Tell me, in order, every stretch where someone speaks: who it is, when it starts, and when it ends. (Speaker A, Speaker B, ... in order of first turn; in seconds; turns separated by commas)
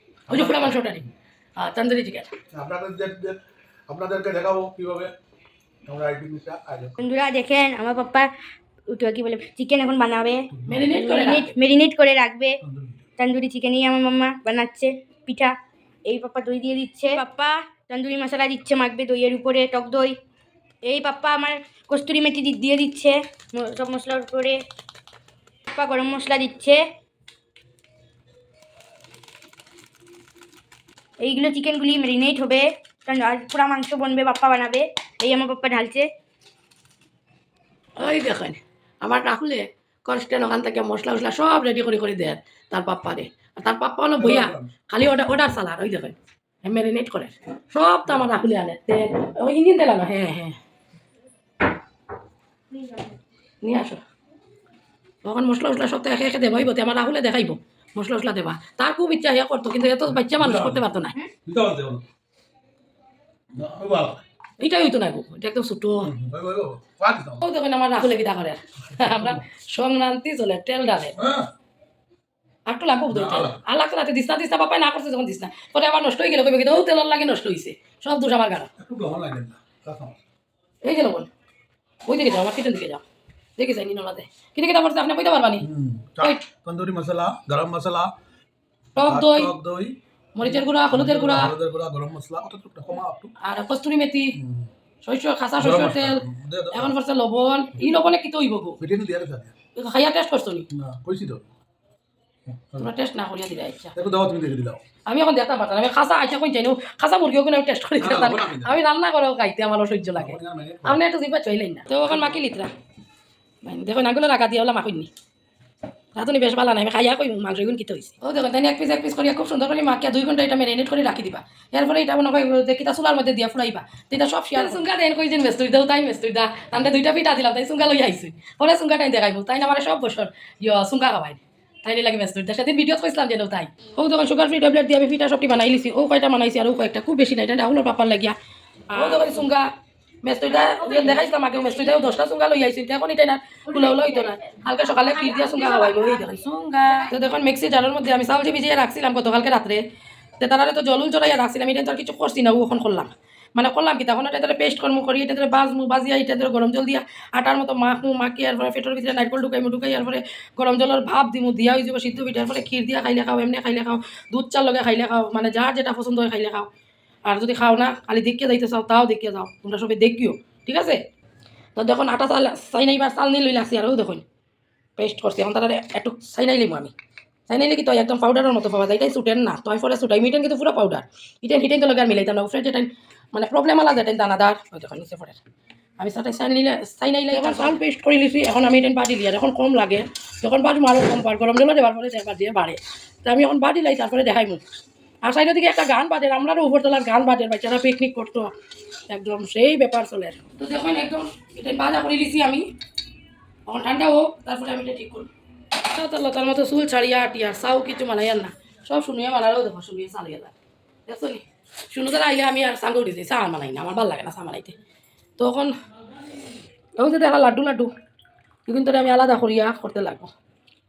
Speaker A: 0.3-0.8, Speaker B: 0.3-2.3, Speaker A: 2.5-5.1, Speaker A: 5.9-7.0, Speaker C: 7.0-8.3, Speaker C: 8.9-12.6, Speaker A: 10.6-10.8, Speaker B: 10.7-11.5, Speaker A: 12.6-13.0, Speaker C: 13.2-20.2, Speaker C: 20.8-24.6, Speaker C: 25.7-26.9, Speaker C: 31.2-36.1, Speaker B: 38.0-50.6, Speaker A: 44.2-44.7, Speaker B: 53.6-54.0, Speaker B: 55.2-61.2, Speaker A: 60.1-60.9, Speaker A: 61.5-62.0, Speaker A: 63.5-64.2, Speaker B: 64.6-66.1, Speaker A: 66.0-67.4, Speaker B: 67.4-71.2, Speaker A: 69.0-69.4, Speaker A: 71.2-71.5, Speaker B: 72.7-78.7, Speaker A: 73.1-73.6, Speaker A: 78.8-80.2, Speaker B: 80.8-81.3, Speaker B: 82.1-83.0, Speaker B: 83.6-85.7, Speaker A: 85.6-88.1, Speaker B: 89.0-89.5, Speaker A: 89.0-93.3, Speaker B: 90.3-91.5, Speaker B: 93.4-94.4, Speaker A: 94.4-94.7, Speaker B: 95.0-98.8, Speaker A: 95.6-96.9, Speaker A: 98.8-99.5, Speaker B: 99.7-100.7, Speaker A: 100.7-101.5, Speaker A: 102.5-102.9, Speaker B: 102.8-103.9, Speaker A: 104.0-104.8, Speaker B: 105.1-112.7, Speaker A: 108.0-108.8, Speaker A: 110.2-111.0, Speaker B: 113.6-115.1, Speaker B: 116.2-138.4, Speaker B: 138.9-139.7, Speaker B: 140.2-149.8, Speaker C: 140.8-141.1, Speaker C: 143.8-146.9, Speaker B: 150.4-166.7, Speaker B: 167.2-171.0, Speaker B: 171.8-174.2, Speaker B: 175.0-176.9, Speaker B: 177.5-185.4, Speaker B: 186.0-194.6, Speaker B: 195.2-198.5, Speaker B: 199.1-202.7, Speaker B: 203.7-205.3, Speaker B: 205.8-210.5, Speaker B: 211.1-214.8, Speaker B: 215.4-215.7, Speaker B: 217.0-217.9, Speaker B: 218.7-220.3